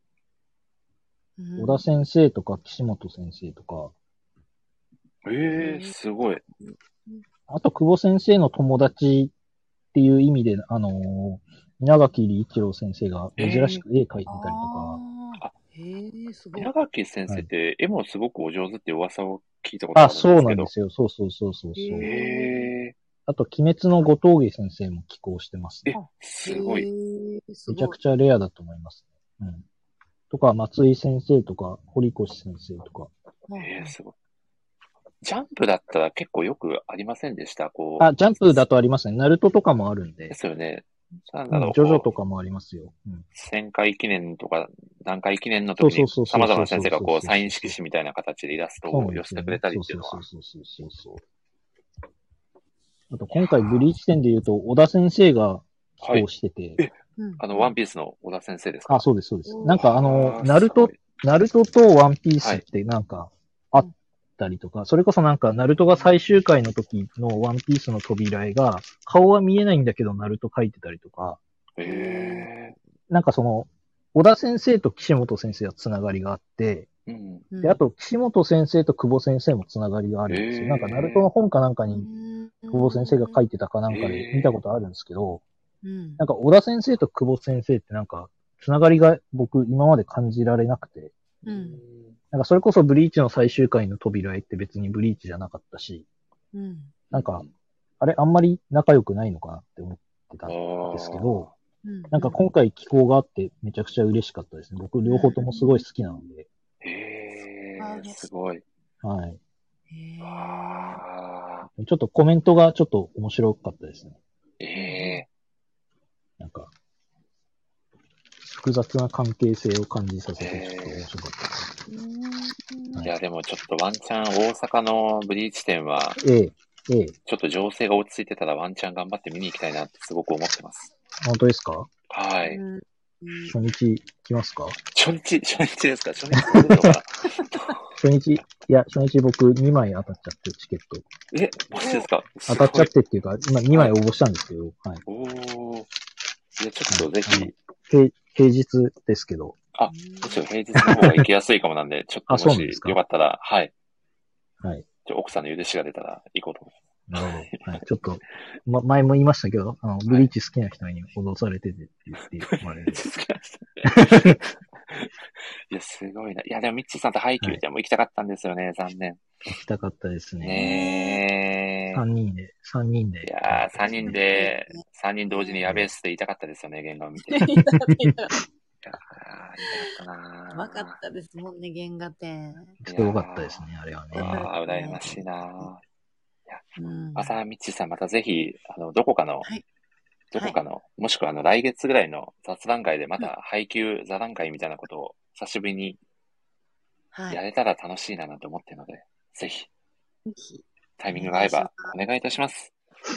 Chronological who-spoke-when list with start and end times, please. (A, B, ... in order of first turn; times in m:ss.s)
0:01.4-0:01.8 A
0:01.6-0:03.9 B
0:05.2-0:06.4 C
0:05.6-0:05.9 A
0:07.5-0:09.3 B
0:09.9-0:15.0 B
0:13.4-0:13.8 C
0:14.3-0:16.7 A
0:16.6-0:20.7 C
0:19.9-0:22.1 B
0:21.7-0:22.7 A
0:22.0-0:22.9 C
0:23.3-0:25.9 B
0:25.8-0:26.9 C
0:25.9-0:28.0 A
0:27.7-0:29.6 B
0:30.3-0:33.1 B
0:33.5-0:33.9 A
0:33.6-0:34.1 C
0:35.2-0:38.1 C
0:38.0-0:40.4 B
0:40.3-0:42.1 C
0:41.5-0:43.2 B
0:43.3-0:50.2 C
0:45.8-0:47.8 B
0:48.9-0:51.2 B
0:53.1-0:56.8 B
0:53.3-0:53.8 C
0:56.0-0:56.2 C
0:56.8-0:59.0 C
0:57.2-0:57.7 A
0:58.9-1:11.4 B
0:59.4-0:59.8 A
0:59.7-1:01.0 C
1:11.8-1:12.8 C
1:11.8-1:12.5 A
1:13.1-1:16.9 B
1:17.1-1:17.5 C
1:17.5-1:17.8 A
1:17.6-1:22.1 B
1:20.3-1:21.2 C
1:21.9-1:23.4 A
1:22.7-1:25.4 B
1:23.9-1:24.6 C
1:25.8-1:26.2 A
1:26.2-1:31.1 B
1:31.4-1:31.8 A
1:31.5-1:32.2 C
1:32.3-1:36.0 B
1:36.5-1:37.0 A
1:37.1-1:37.4 B
1:37.1-1:37.5 C
1:38.0-1:41.5 B
1:40.4-1:41.5 C
1:41.8-1:42.4 A
1:42.1-1:46.5 B
1:45.0-1:45.8 A
1:46.8-1:48.6 C
1:47.8-1:48.3 A
1:49.0-1:49.4 B
1:49.9-1:51.0 A
1:50.2-1:51.7 C
1:51.8-1:54.2 B
1:54.6-1:55.2 C
1:54.8-1:55.2 A
1:56.4-1:56.7 B
1:58.4-2:01.7 B
2:00.4-2:01.0 C
2:01.9-2:03.0 A
2:03.0-2:06.2 C
2:06.2-2:07.1 B
2:07.2-2:10.9 C
2:11.2-2:11.9 B
2:12.1-2:12.6 C
2:12.4-2:13.5 A
2:13.5-2:14.8 B
2:14.9-2:17.8 C
2:16.4-2:16.9 B
2:18.0-2:21.1 B
2:21.3-2:22.9 C
2:21.8-2:22.0 A
2:22.5-2:25.0 B
2:25.0-2:25.9 C
2:26.6-2:27.6 C
2:26.9-2:29.6 B
2:29.7-2:33.7 C
2:29.9-2:30.4 A
2:30.8-2:31.2 B
2:32.3-2:33.0 B
2:35.0-2:37.8 C
2:37.1-2:43.0 B
2:42.4-2:45.1 C
2:43.8-2:44.4 B
2:45.7-2:49.2 C
2:49.4-2:50.6 B
2:50.4-2:52.0 C
2:50.5-2:51.2 A
2:51.9-2:54.2 B
2:53.2-2:57.5 C
2:53.8-2:55.6 A
2:57.2-2:58.4 A
2:58.8-3:01.0 C
3:00.5-3:02.7 A
3:02.8-3:04.5 B
3:02.8-3:05.8 C
3:04.1-3:05.7 A
3:06.5-3:09.5 C
3:06.8-3:07.4 A
3:10.3-3:16.0 C
3:17.1-3:17.4 A
3:17.3-3:19.7 C
3:20.2-3:21.9 A
3:21.0-3:22.7 C